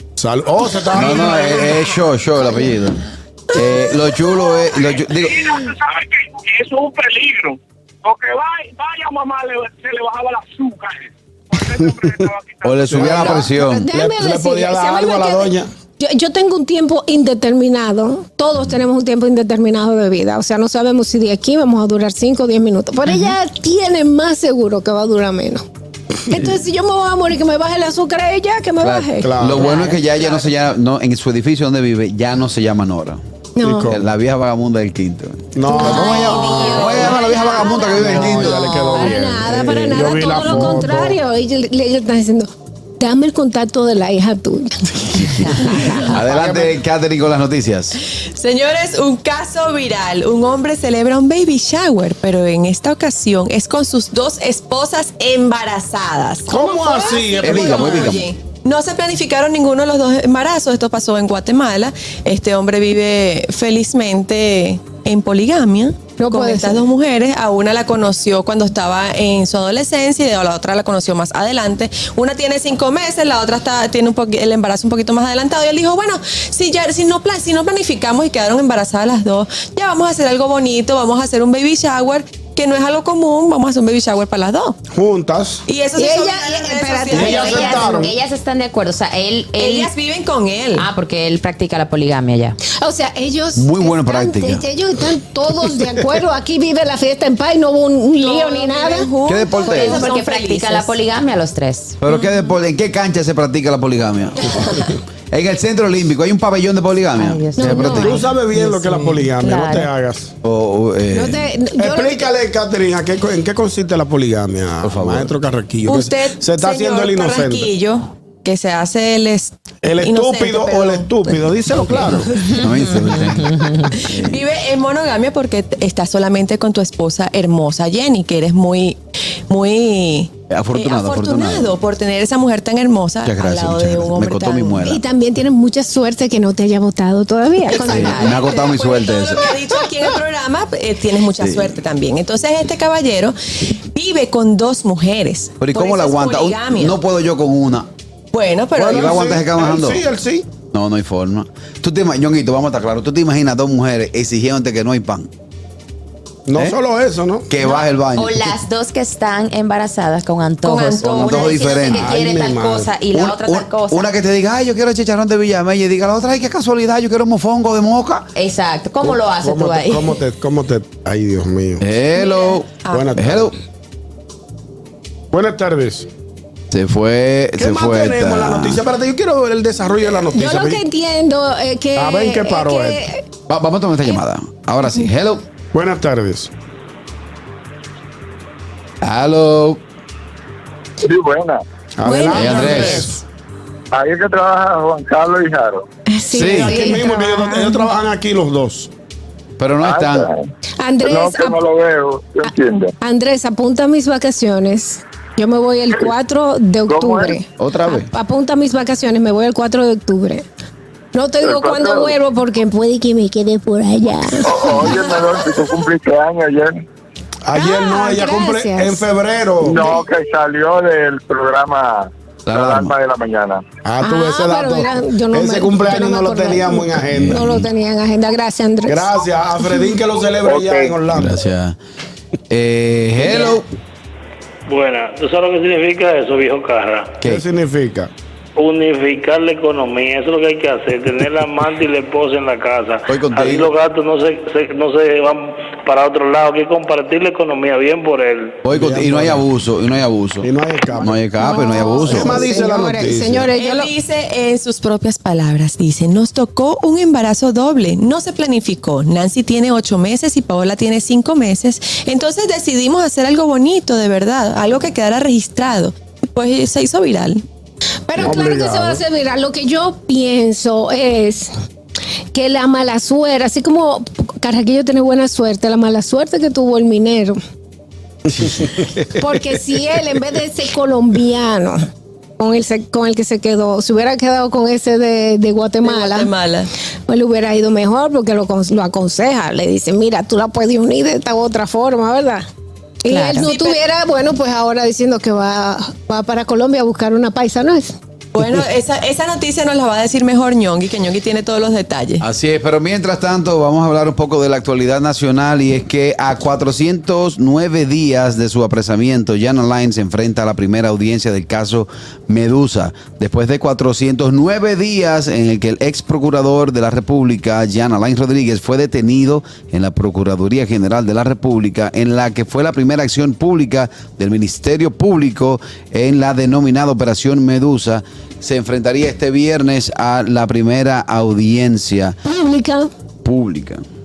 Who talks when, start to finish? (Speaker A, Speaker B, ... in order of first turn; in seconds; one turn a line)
Speaker A: 0.2-1.8
Speaker B: 0.9-5.6
Speaker C: 4.8-13.1
Speaker B: 12.6-13.9
Speaker A: 12.9-15.7
Speaker D: 13.0-25.6
Speaker D: 26.3-30.4
Speaker B: 28.8-33.2
Speaker A: 29.2-29.7
Speaker D: 33.5-33.9
Speaker A: 33.6-34.1
Speaker B: 33.9-38.8
Speaker A: 35.5-37.1
Speaker D: 35.7-44.9
Speaker E: 35.9-37.9
Speaker A: 37.9-41.2
Speaker B: 45.1-48.0
Speaker A: 46.1-46.7
Speaker F: 48.3-84.8
Speaker A: 56.5-58.2
Speaker B: 57.4-58.2
Speaker D: 66.2-66.8
Speaker A: 84.9-85.6
Speaker F: 85.7-87.9
Speaker D: 86.0-87.9
Speaker A: 87.1-88.1
Speaker E: 87.2-89.9
Speaker F: 89.6-90.9
Speaker E: 90.8-92.6
Speaker D: 92.8-99.1
Speaker B: 93.5-94.6
Speaker F: 98.2-101.0
Speaker B: 99.2-100.1
Speaker E: 99.6-102.0
Speaker B: 102.0-104.7
Speaker B: 105.3-108.2
Speaker E: 107.2-108.2
Speaker D: 107.6-108.3
Speaker A: 107.9-110.3
Speaker F: 108.7-109.3
Speaker E: 109.3-109.9
Speaker B: 110.4-111.5
Speaker D: 111.1-112.2
Speaker A: 111.8-117.7
Speaker B: 114.8-115.3
Speaker F: 115.8-122.1
Speaker A: 119.8-122.4
Speaker B: 122.0-124.4
Speaker E: 123.2-123.8
Speaker F: 124.1-129.0
Speaker F: 129.5-134.9
Speaker B: 130.5-131.8
Speaker B: 133.2-135.0
Speaker D: 134.8-138.3
Speaker F: 137.7-143.3
Speaker B: 137.9-139.5
Speaker B: 141.4-141.8
Speaker F: 143.9-147.0
Speaker B: 145.6-147.9
Speaker F: 148.3-149.3
Speaker A: 148.8-150.5
Speaker B: 148.8-150.0
Speaker B: 150.7-155.3
Speaker A: 156.5-157.5
Speaker B: 157.5-158.6
Speaker E: 157.6-164.1
Speaker F: 160.6-161.6
Speaker B: 161.1-162.2
Speaker A: 161.9-162.9
Speaker B: 163.1-168.3
Speaker E: 168.3-170.2
Speaker A: 169.0-171.8
Speaker B: 171.8-173.5
Speaker F: 172.2-173.1
Speaker A: 172.9-173.5
Speaker A: 175.3-176.1
Speaker B: 176.7-178.8
Speaker A: 177.6-180.8
Speaker D: 180.3-183.2
Speaker A: 181.9-183.0
Speaker B: 183.5-185.4
Speaker A: 185.7-186.5
Speaker B: 189.0-189.8
Speaker C: 191.0-191.6
Speaker A: 192.0-193.2
Speaker F: 192.1-193.0
Speaker B: 192.3-193.1
Speaker C: 193.9-195.8
Speaker D: 196.1-197.9
Speaker B: 196.3-196.8
Speaker A: 196.3-198.9
Speaker B: 199.6-200.3
Speaker C: 199.8-200.4
Speaker D: 200.8-201.6
Speaker C: 201.0-202.9
Speaker D: 203.0-210.4
Speaker C: 206.9-207.4
Speaker B: 207.6-208.1
Speaker D: 211.1-215.3
Speaker C: 211.4-212.1
Speaker C: 214.4-216.8
Speaker A: 217.4-219.9
Speaker D: 217.5-219.0
Speaker C: 219.6-223.6
Speaker B: 222.5-222.9
Speaker A: 223.8-227.5
Speaker D: 224.0-229.1
Speaker B: 227.1-227.7
Speaker A: 228.8-231.3
Speaker C: 230.5-230.9
Speaker B: 231.1-231.8
Speaker B: 232.5-233.7
Speaker G: 234.7-237.2
Speaker A: 237.2-238.1
Speaker G: 238.6-248.6
Speaker B: 243.1-243.7
Speaker B: 248.6-252.4
Speaker A: 248.7-249.4
Speaker A: 250.4-251.2
Speaker D: 251.4-253.9
Speaker A: 251.7-253.5
Speaker F: 253.6-267.4
Speaker D: 268.1-271.5
Speaker A: 268.2-269.0
Speaker D: 272.3-277.4
Speaker A: 278.3-279.2
Speaker D: 279.1-281.9
Speaker D: 282.4-286.3
Speaker F: 285.8-286.7
Speaker D: 287.1-292.4
Speaker D: 293.0-297.9
Speaker E: 293.1-293.5
Speaker F: 293.4-293.8
Speaker F: 298.3-302.2
Speaker B: 302.2-332.2
Speaker D: 332.2-332.9
Speaker B: 333.2-333.8